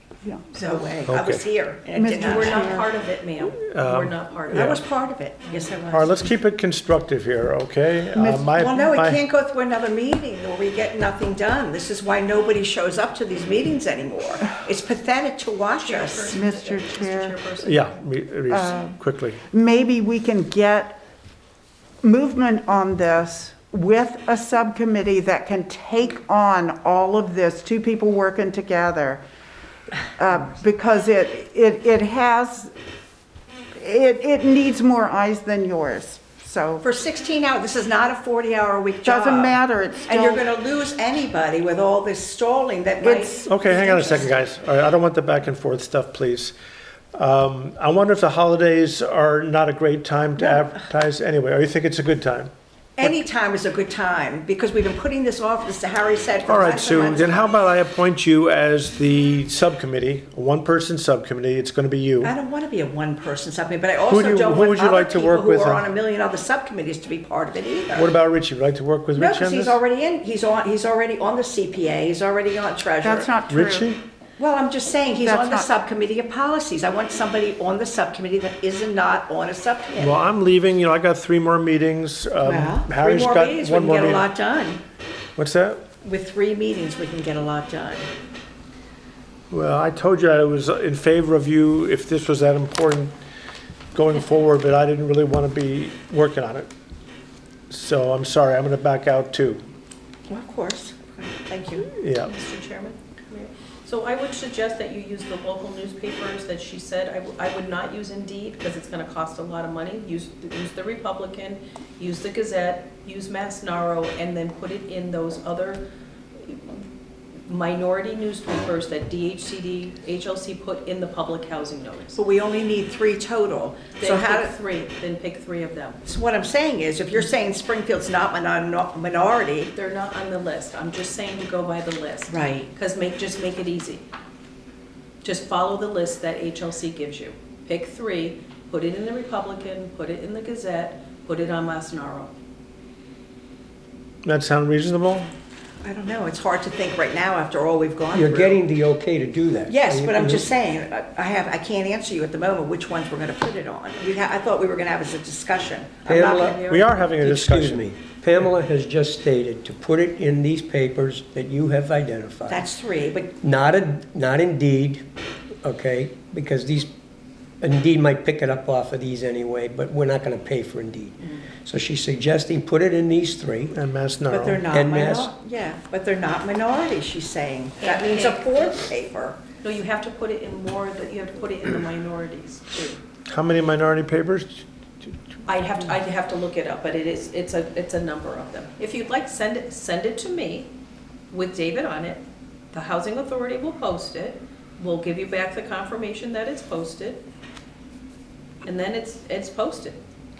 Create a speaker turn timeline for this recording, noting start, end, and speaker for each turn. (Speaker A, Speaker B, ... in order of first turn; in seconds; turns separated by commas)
Speaker A: 0.2-0.7, Speaker B: 0.5-2.7, Speaker C: 1.0-1.5, Speaker A: 1.9-2.9, Speaker D: 2.1-4.7, Speaker C: 3.5-4.8, Speaker B: 4.5-6.1, Speaker C: 5.9-9.2, Speaker A: 8.1-8.5, Speaker B: 8.5-16.3, Speaker D: 15.8-17.9, Speaker A: 16.3-17.3, Speaker C: 17.6-19.4, Speaker A: 18.5-19.0, Speaker A: 19.5-21.0, Speaker A: 22.0-29.2, Speaker A: 30.1-32.7, Speaker A: 33.7-36.8, Speaker B: 36.8-44.3, Speaker A: 39.0-40.4, Speaker A: 43.0-44.2, Speaker C: 43.5-46.5, Speaker C: 47.1-52.5, Speaker B: 53.0-57.5, Speaker C: 56.5-62.3, Speaker B: 62.2-68.1, Speaker C: 64.0-65.9, Speaker C: 67.9-69.8, Speaker B: 69.1-73.3, Speaker A: 73.0-73.9, Speaker C: 73.5-74.0, Speaker B: 74.4-80.2, Speaker A: 75.2-75.7, Speaker C: 80.0-84.3, Speaker B: 82.4-84.8, Speaker C: 85.3-85.8, Speaker B: 86.0-88.1, Speaker C: 89.5-93.1, Speaker C: 93.9-96.7, Speaker C: 97.7-99.6, Speaker B: 100.3-101.9, Speaker C: 102.0-102.3, Speaker D: 102.2-115.8, Speaker D: 116.4-116.8, Speaker D: 117.5-122.2, Speaker B: 122.2-124.5, Speaker D: 124.0-126.0, Speaker B: 126.0-129.7, Speaker D: 129.7-134.1, Speaker B: 132.3-132.7, Speaker D: 135.2-142.3, Speaker C: 144.2-145.3, Speaker B: 145.8-148.6, Speaker E: 148.1-150.4, Speaker B: 149.7-156.6, Speaker E: 156.1-156.7, Speaker C: 156.6-157.9, Speaker E: 157.2-162.6, Speaker B: 162.5-163.3, Speaker E: 163.4-165.0, Speaker E: 165.6-166.9, Speaker E: 167.6-173.7, Speaker C: 173.7-174.7, Speaker B: 174.3-179.4, Speaker E: 174.7-175.3, Speaker D: 177.8-178.9, Speaker D: 179.6-183.0, Speaker C: 183.3-185.2, Speaker D: 185.5-190.7, Speaker D: 191.3-197.2, Speaker D: 198.6-200.0